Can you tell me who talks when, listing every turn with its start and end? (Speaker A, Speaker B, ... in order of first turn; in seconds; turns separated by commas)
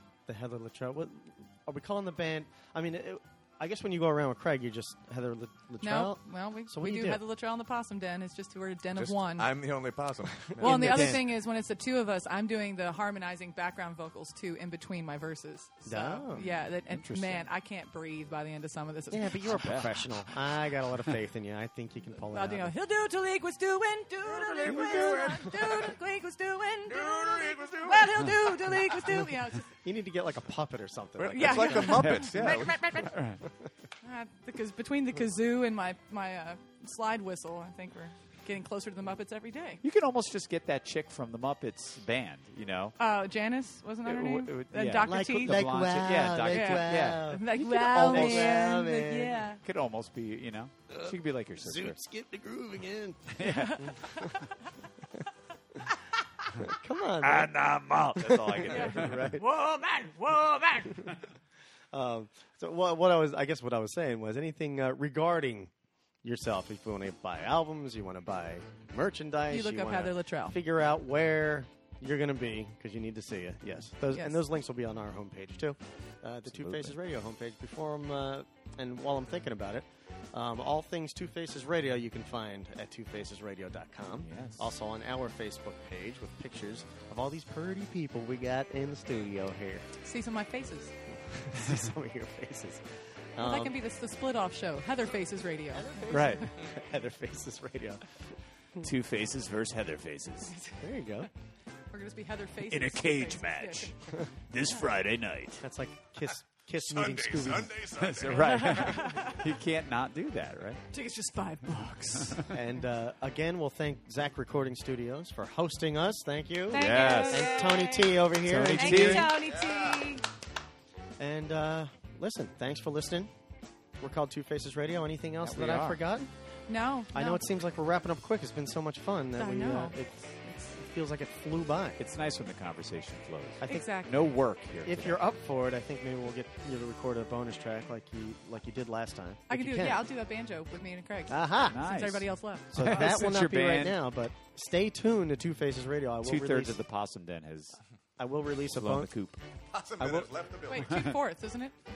Speaker A: 0.3-7.2, Speaker B: 5.8-9.5, Speaker C: 8.9-11.2, Speaker A: 10.5-11.3, Speaker B: 10.6-19.6, Speaker A: 15.9-16.4, Speaker D: 16.4-17.4, Speaker A: 19.1-22.7, Speaker D: 19.5-20.2, Speaker B: 22.3-29.7, Speaker C: 24.5-25.3, Speaker A: 24.6-25.9, Speaker C: 26.9-28.3, Speaker A: 29.1-32.0, Speaker C: 31.2-33.1, Speaker B: 31.3-33.1, Speaker D: 31.9-33.4, Speaker B: 34.0-39.8, Speaker D: 39.8-43.0, Speaker B: 43.0-45.6, Speaker D: 44.0-47.4, Speaker A: 45.0-49.5, Speaker B: 46.5-49.6, Speaker D: 48.0-48.6, Speaker D: 49.6-52.0, Speaker A: 51.6-54.2, Speaker D: 53.4-53.9, Speaker B: 53.4-54.5, Speaker A: 56.5-59.5, Speaker D: 57.2-59.4, Speaker B: 58.7-60.9, Speaker D: 60.8-61.1, Speaker A: 60.9-61.2, Speaker A: 61.9-65.7, Speaker A: 66.2-89.9, Speaker B: 69.5-70.6, Speaker B: 74.1-74.4, Speaker D: 76.5-77.0, Speaker D: 84.2-84.7, Speaker B: 90.0-90.9, Speaker A: 91.2-93.8, Speaker B: 93.4-96.4, Speaker A: 95.7-98.2, Speaker D: 96.1-96.5, Speaker D: 98.8-100.5, Speaker B: 100.5-100.8, Speaker A: 100.8-101.3, Speaker B: 101.9-104.0, Speaker D: 102.7-105.6, Speaker A: 105.6-107.8, Speaker C: 106.8-109.0, Speaker D: 108.0-110.8, Speaker B: 108.4-109.5, Speaker B: 110.9-112.5, Speaker D: 111.7-112.5, Speaker A: 112.5-119.5, Speaker B: 116.7-120.2, Speaker D: 116.7-117.6, Speaker D: 118.4-119.5, Speaker C: 119.5-120.0, Speaker A: 121.2-123.3, Speaker A: 124.0-126.3, Speaker D: 125.4-126.0, Speaker B: 126.7-127.5, Speaker A: 127.1-132.0, Speaker B: 129.4-130.0, Speaker D: 132.0-135.2, Speaker A: 133.6-133.9, Speaker B: 133.6-134.2, Speaker A: 134.8-140.0, Speaker B: 139.5-143.0, Speaker A: 141.3-141.8, Speaker D: 141.7-144.0, Speaker A: 142.7-146.8, Speaker D: 146.2-147.8, Speaker A: 148.2-149.1, Speaker D: 148.7-149.4, Speaker C: 149.7-151.2, Speaker A: 150.0-150.4, Speaker B: 150.7-151.8